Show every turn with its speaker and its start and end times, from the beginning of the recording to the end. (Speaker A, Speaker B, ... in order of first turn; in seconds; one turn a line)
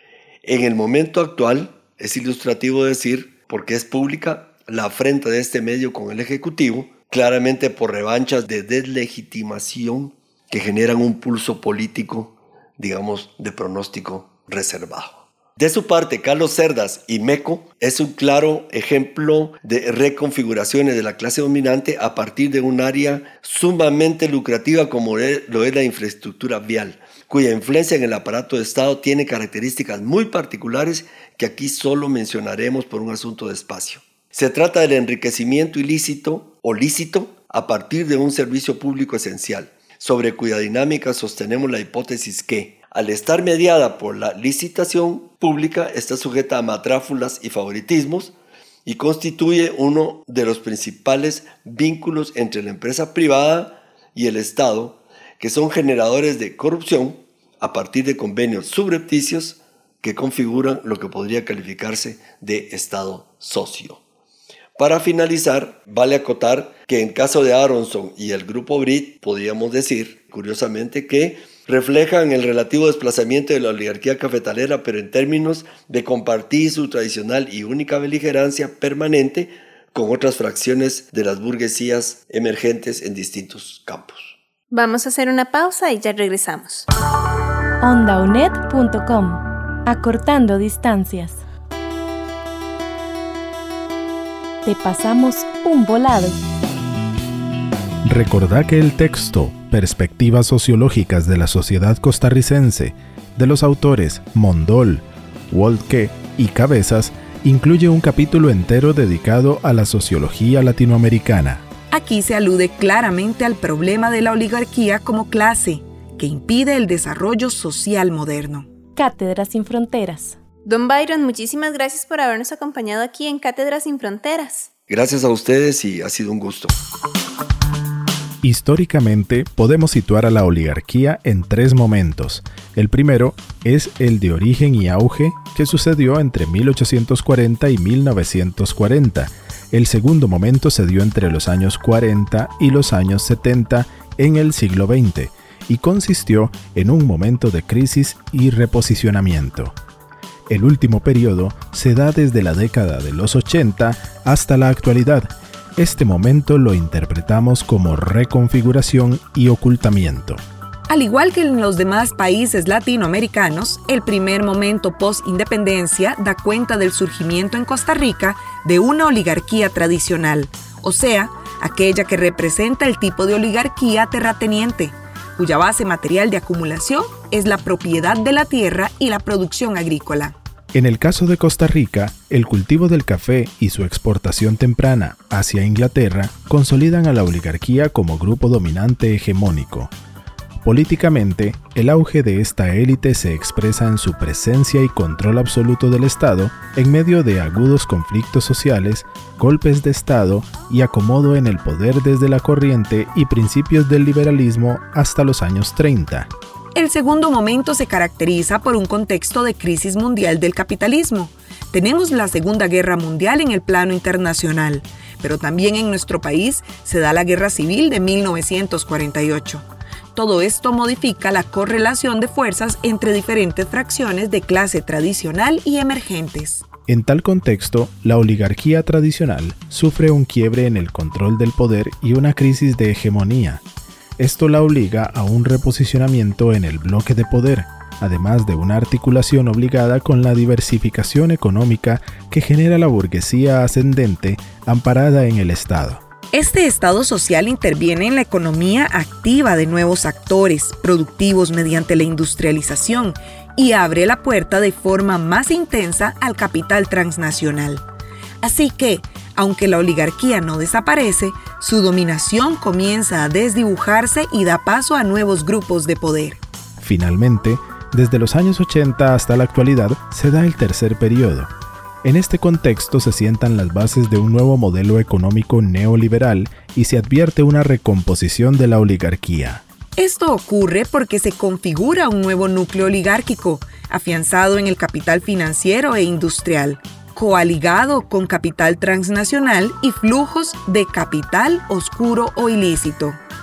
Speaker A: 0.4-48.3
Speaker A: 48.8-64.0
Speaker A: 64.8-84.3
Speaker B: 84.7-86.9
Speaker C: 87.8-91.4
Speaker C: 94.6-96.4
Speaker D: 98.0-111.6
Speaker E: 111.9-118.7
Speaker C: 119.0-120.4
Speaker B: 120.6-124.7
Speaker A: 124.9-126.7
Speaker D: 128.4-149.7
Speaker D: 150.5-160.4
Speaker E: 160.9-180.3
Speaker D: 180.7-189.9
Speaker D: 190.6-206.3
Speaker E: 206.7-226.6
Speaker D: 226.9-233.6
Speaker D: 234.2-246.0
Speaker E: 246.3-257.8
Speaker E: 258.4-266.4
Speaker D: 266.8-271.5
Speaker D: 272.0-279.6
Speaker E: 280.0-293.2